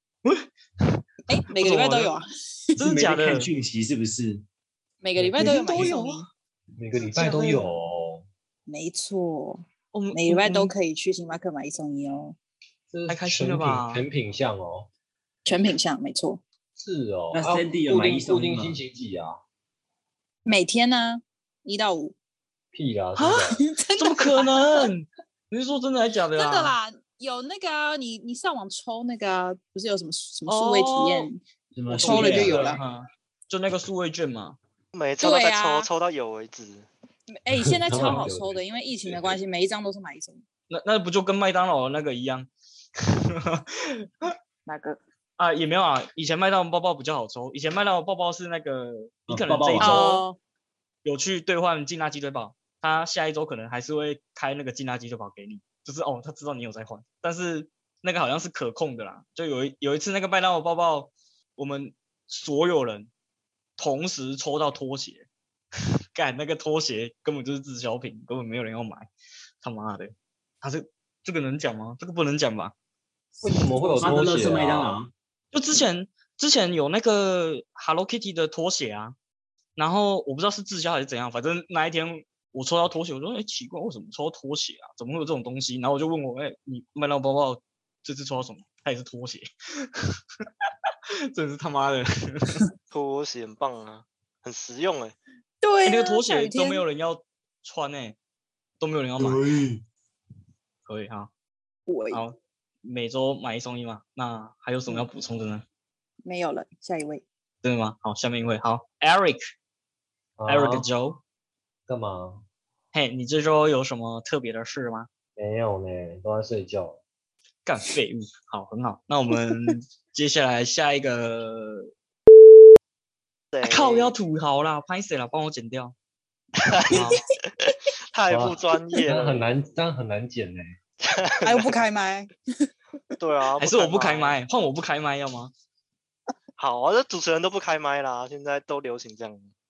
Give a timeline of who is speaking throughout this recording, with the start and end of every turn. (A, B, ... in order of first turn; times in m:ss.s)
0:00.2-0:02.1 A
0:01.3-0:02.7 B
0:02.8-0:03.5 A
0:02.8-0:04.4 C
0:05.0-0:06.3 B
0:05.2-0:06.0 D
0:05.4-0:06.3 A
0:06.8-0:08.2 D
0:07.1-0:07.6 A
0:08.7-0:12.4 B
0:09.9-0:10.7 A
0:12.9-0:14.9 D
0:13.1-0:14.0 A
0:15.4-0:16.4 B
0:16.7-0:19.4 D
0:17.3-0:18.8 C
0:20.4-0:22.1 B
0:22.7-0:23.6 D
0:23.2-0:23.4 A
0:23.5-0:24.9 B
0:23.9-0:26.8 A
0:26.3-0:31.4 B
0:30.5-0:31.3 A
0:31.7-0:32.6 C
0:31.9-0:32.8 D
0:32.0-0:32.8 B
0:32.0-0:34.6 A
0:34.9-0:36.9 E
0:35.2-0:35.9 B
0:37.3-0:40.4 B
0:37.6-0:38.6 D
0:38.0-0:38.3 A
0:40.7-0:44.3 A
0:44.6-0:45.0 B
0:45.4-0:50.2 A
0:49.3-0:50.1 C
0:49.8-0:50.4 B
0:51.0-1:03.1 A
1:03.8-1:05.3 A
1:06.1-1:09.1 A
1:09.6-1:12.7 A
1:13.4-1:15.0 D
1:13.7-1:15.1 C
1:15.5-1:19.2 A
1:19.8-1:30.2 A
1:31.3-1:32.6 A
1:32.9-1:35.2 E
1:35.6-1:36.8 B
1:35.8-1:38.2 A
1:38.8-1:39.5 A
1:39.2-1:39.8 C
1:40.8-1:41.3 A
1:41.9-1:42.2 B
1:42.1-1:45.6 A
1:46.2-1:47.2 B
1:47.6-1:49.4 A
1:50.4-1:50.9 D
1:50.5-1:51.2 A
1:51.9-1:52.4 D
1:52.9-1:55.1 A
1:55.4-1:57.0 D
1:57.6-2:01.9 A
2:03.5-2:04.2 E
2:03.6-2:05.9 A
2:06.7-2:07.0 E
2:06.9-2:07.2 A
2:08.1-2:09.5 E
2:08.3-2:10.6 D
2:11.0-2:11.8 E
2:11.4-2:12.3 B
2:13.2-2:14.4 E
2:13.6-2:15.5 A
2:16.6-2:19.4 E